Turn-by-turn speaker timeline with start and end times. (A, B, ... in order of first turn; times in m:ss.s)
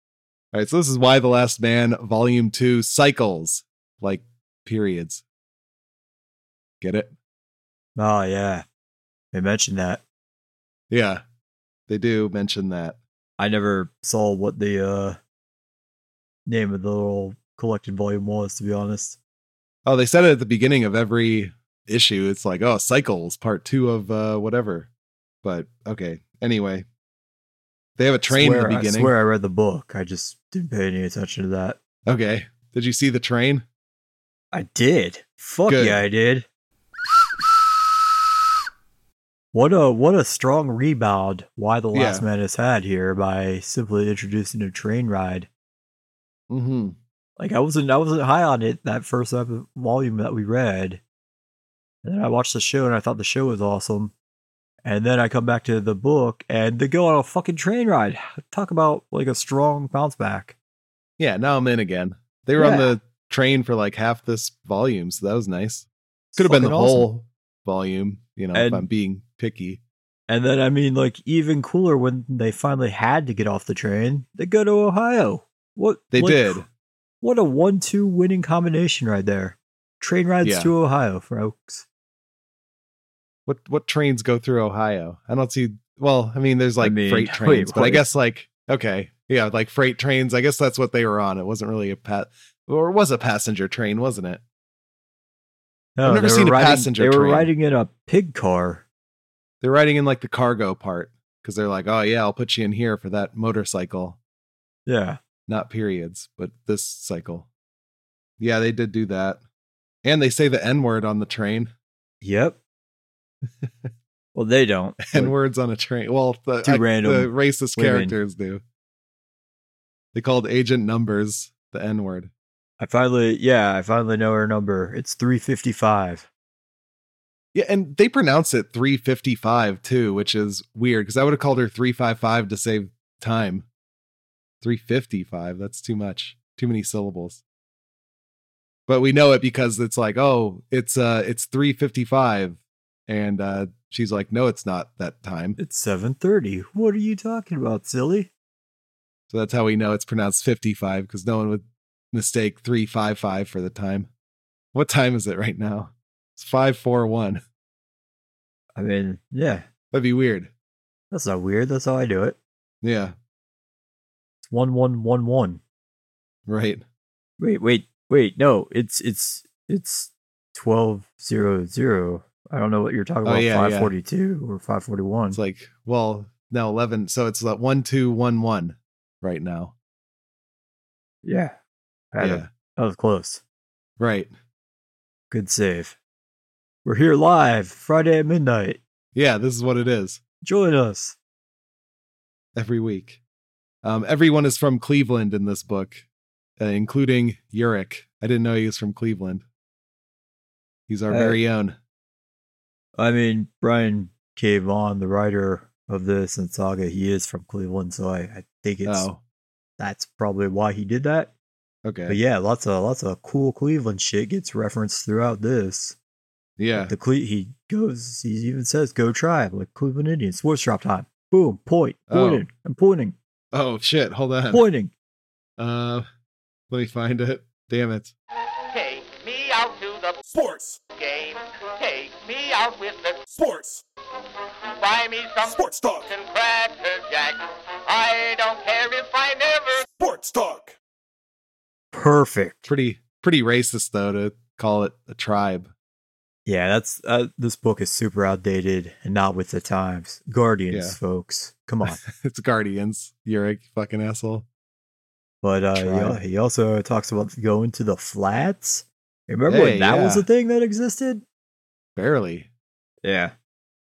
0:00.5-0:05.2 A
0:06.8-0:07.1 A
0:08.0-0:08.7 B
0:09.3-0:10.0 B
0:10.9-0:11.2 A
0:11.9-0:13.0 A
0:13.4-0:15.2 B
0:16.5-0:19.2 B
0:19.8-0:24.9 A
0:25.4-0:26.9 A
0:28.0-0:29.1 A
0:28.3-0:31.8 B
0:32.1-0:33.6 A
0:34.5-0:36.5 B
0:35.7-0:36.0 A
0:39.5-0:45.5 B
0:41.9-0:42.2 A
0:46.5-0:47.0 A
0:47.4-0:51.0 B
0:52.0-0:54.1 B
0:54.8-1:00.6 B
1:01.2-1:09.8 A
1:02.6-1:03.0 B
1:06.3-1:07.1 B
1:08.5-1:08.9 B
1:10.3-1:16.6 B
1:16.1-1:16.7 A
1:17.2-1:21.9 B
1:20.4-1:20.7 A
1:23.5-1:34.4 A
1:26.8-1:28.1 B
1:36.0-1:38.8 B
1:36.0-1:37.5 A
1:39.6-1:44.2 A
1:44.9-1:45.2 B
1:45.5-1:47.5 A
1:48.4-1:49.4 A
1:50.0-1:51.7 A
1:52.2-1:52.6 B
1:53.5-1:53.9 A
1:54.4-1:55.4 B
1:55.0-1:58.6 A
1:56.6-1:58.2 B
2:00.1-2:02.3 A
2:02.8-2:06.3 B
2:07.5-2:13.7 A
2:14.6-2:17.4 A
2:18.9-2:25.6 A
2:25.6-2:28.3 B
2:29.3-2:34.1 A
2:34.7-2:37.4 A
2:38.8-2:39.7 B
2:39.9-2:40.5 A
2:41.1-2:42.4 B
2:42.8-2:43.2 A
2:44.4-2:45.6 B
2:46.5-2:46.8 A
2:47.4-2:55.4 B
2:53.2-2:53.9 A
2:55.3-2:59.7 A
3:01.2-3:01.6 B
3:02.1-3:03.4 B
3:02.2-3:02.5 A
3:04.0-3:04.3 A
3:05.3-3:06.0 B
3:06.8-3:08.8 B
3:09.2-3:10.2 A
3:10.4-3:11.2 B
3:12.6-3:13.2 A
3:13.8-3:16.0 A
3:16.6-3:19.4 A
3:20.9-3:21.8 A
3:21.1-3:21.4 B
3:23.0-3:29.1 B
3:28.8-3:29.2 A
3:29.8-3:31.3 B
3:31.8-3:32.2 A
3:32.1-3:36.0 B
3:36.6-3:36.9 A
3:36.7-3:43.2 B
3:42.1-3:42.5 A
3:43.5-3:44.6 A
3:44.5-3:44.9 B
3:45.6-3:46.0 A
3:46.7-3:48.1 A
3:48.7-3:50.2 C
3:50.3-3:50.8 D
3:50.9-3:53.2 C
3:53.3-3:53.8 D
3:54.8-3:59.8 C
3:55.4-3:56.1 D
3:59.9-4:00.8 D
4:01.9-4:02.7 B
4:02.7-4:05.7 A
4:06.5-4:12.0 B
4:10.7-4:11.0 A
4:11.9-4:14.5 A
4:15.4-4:21.2 B
4:15.7-4:16.2 A
4:19.5-4:20.3 A
4:22.0-4:22.5 A
4:23.0-4:23.3 B